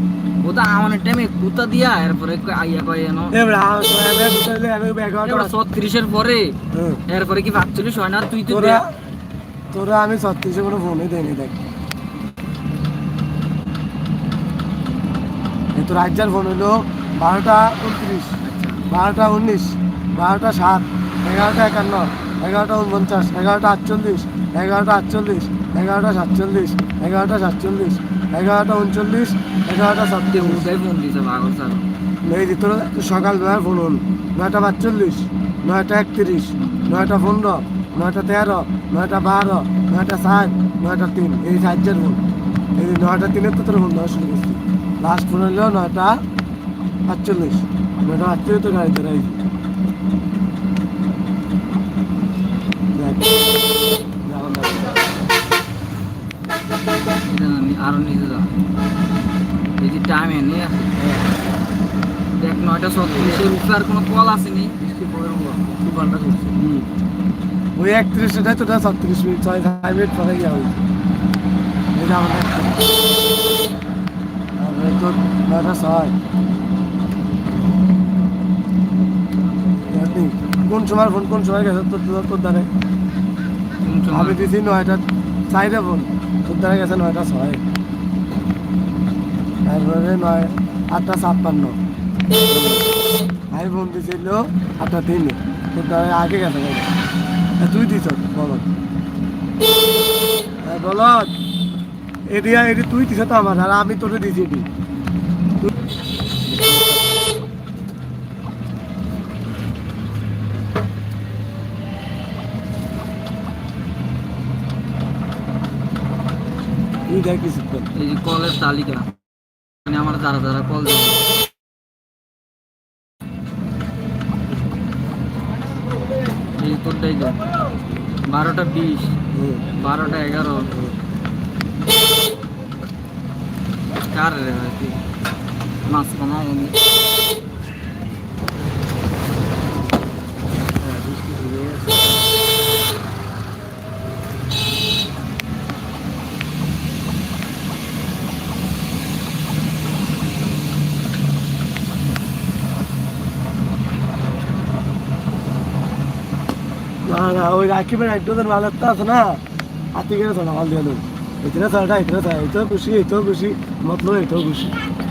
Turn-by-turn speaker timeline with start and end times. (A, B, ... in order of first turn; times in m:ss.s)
0:00.4-0:03.4 A
0:03.3-0:05.6 B
0:05.2-0:06.6 A
0:06.7-0:07.0 B
0:07.1-0:08.8 A
0:08.5-0:09.0 B
0:09.7-0:11.6 B
0:15.7-0:18.4 B
0:18.4-0:18.8 A
0:18.9-0:30.7 B
0:30.3-0:31.8 A
0:32.2-0:42.2 B
0:36.6-0:37.1 A
0:42.8-0:46.2 B
0:47.0-0:49.4 B
0:52.9-0:53.3 B
0:54.2-0:55.0 B
0:57.3-0:58.5 A
0:59.8-1:00.9 A
1:01.0-1:01.2 B
1:02.3-1:04.7 A
1:03.0-1:03.4 C
1:04.8-1:06.5 C
1:06.6-1:06.9 B
1:07.8-1:10.8 B
1:11.9-1:12.8 B
1:14.6-1:16.1 B
1:19.9-1:22.7 B
1:23.8-1:24.4 A
1:24.1-1:27.6 B
1:29.6-1:31.8 B
1:32.5-1:32.8 B
1:33.5-1:36.9 B
1:37.6-1:38.7 B
1:40.6-1:41.3 B
1:42.3-1:44.7 B
1:57.1-1:57.9 B
1:57.9-1:59.1 A
1:59.8-2:01.2 A
2:06.6-2:07.4 A
2:08.3-2:09.2 A
2:09.3-2:09.7 B
2:09.8-2:10.7 A
2:14.1-2:15.0 A
2:15.8-2:16.7 A
2:20.8-2:22.1 C
2:37.0-2:39.4 B
2:39.9-2:44.7 B